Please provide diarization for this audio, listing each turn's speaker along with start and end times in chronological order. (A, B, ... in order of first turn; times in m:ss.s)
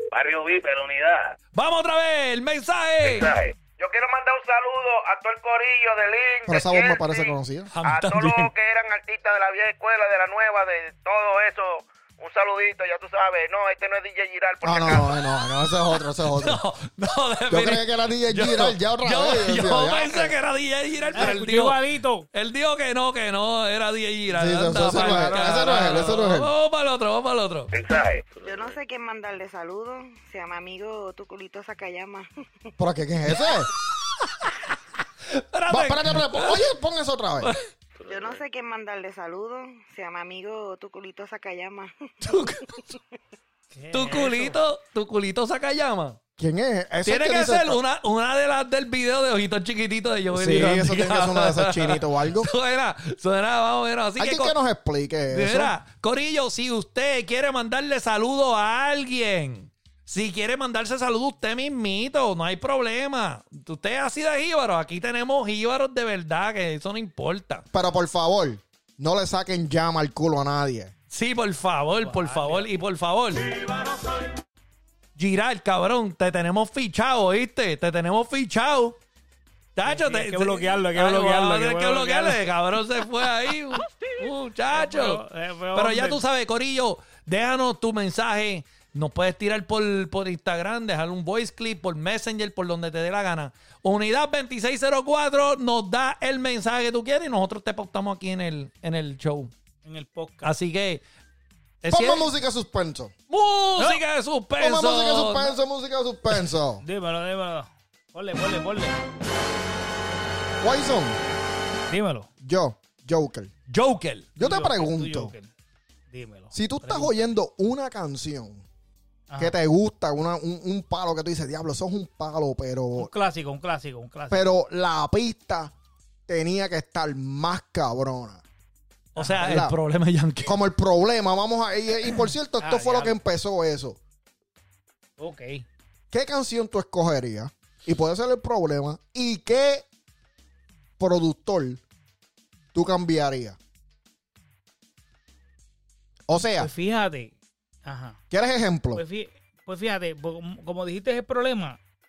0:00.1-0:01.4 A
0:01.5-0:03.3 B
0:03.1-0:15.1 C
0:06.5-0:07.7 D
0:07.7-0:08.5 B
0:14.6-0:16.6 D
0:16.2-0:21.8 B
0:17.5-0:20.4 D
0:21.1-0:22.3 E
0:22.3-0:27.7 B
0:24.3-0:26.5 D
0:24.7-0:26.2 E
0:27.7-0:28.3 C
0:28.3-0:28.8 A
0:28.4-0:32.3 F
0:32.8-0:33.7 D
0:34.2-0:34.5 B
0:35.3-0:36.7 B
0:35.7-0:37.5 D
0:38.1-0:43.0 F
0:38.1-0:38.4 A
0:42.2-0:42.7 B
0:43.7-0:44.6 E
0:43.9-0:46.2 B
0:46.4-0:47.8 D
0:47.0-0:54.6 B
0:50.3-0:52.5 D
0:54.2-0:55.8 D
0:55.3-1:07.6 B
1:07.7-1:10.9 D
1:11.1-1:13.5 B
1:12.0-1:12.7 E
1:15.2-1:19.0 B
1:19.8-1:25.2 B
1:19.9-1:22.4 E
1:23.8-1:24.1 E
1:24.7-1:26.2 E
1:25.7-1:39.5 B
1:39.8-1:40.5 E
1:40.4-1:41.0 B
1:41.8-1:42.3 B
1:41.9-1:43.1 D
1:43.3-1:45.6 B
1:43.8-1:44.0 E
1:44.6-1:46.8 D
1:46.8-1:49.0 E
1:50.6-1:51.2 D
1:51.9-1:52.3 E
1:52.4-1:53.5 D
1:53.7-1:54.3 B
1:54.4-1:55.3 D
1:54.4-1:55.5 E
1:56.1-1:57.3 E
1:56.5-1:58.6 D
1:59.3-1:59.6 E
1:59.4-2:03.1 D
2:03.0-2:04.5 E
2:04.3-2:05.7 D
2:06.3-2:08.4 D
2:09.1-2:10.6 B
2:09.3-2:09.8 D
2:10.4-2:14.0 D
2:12.6-2:13.2 E
2:15.2-2:15.6 E
2:16.1-2:19.9 D
2:21.0-2:21.8 D
2:22.7-2:23.6 D
2:26.3-2:26.7 D
2:26.6-2:27.3 E
2:27.8-2:28.2 E
2:28.3-2:29.0 D
2:29.0-2:31.8 E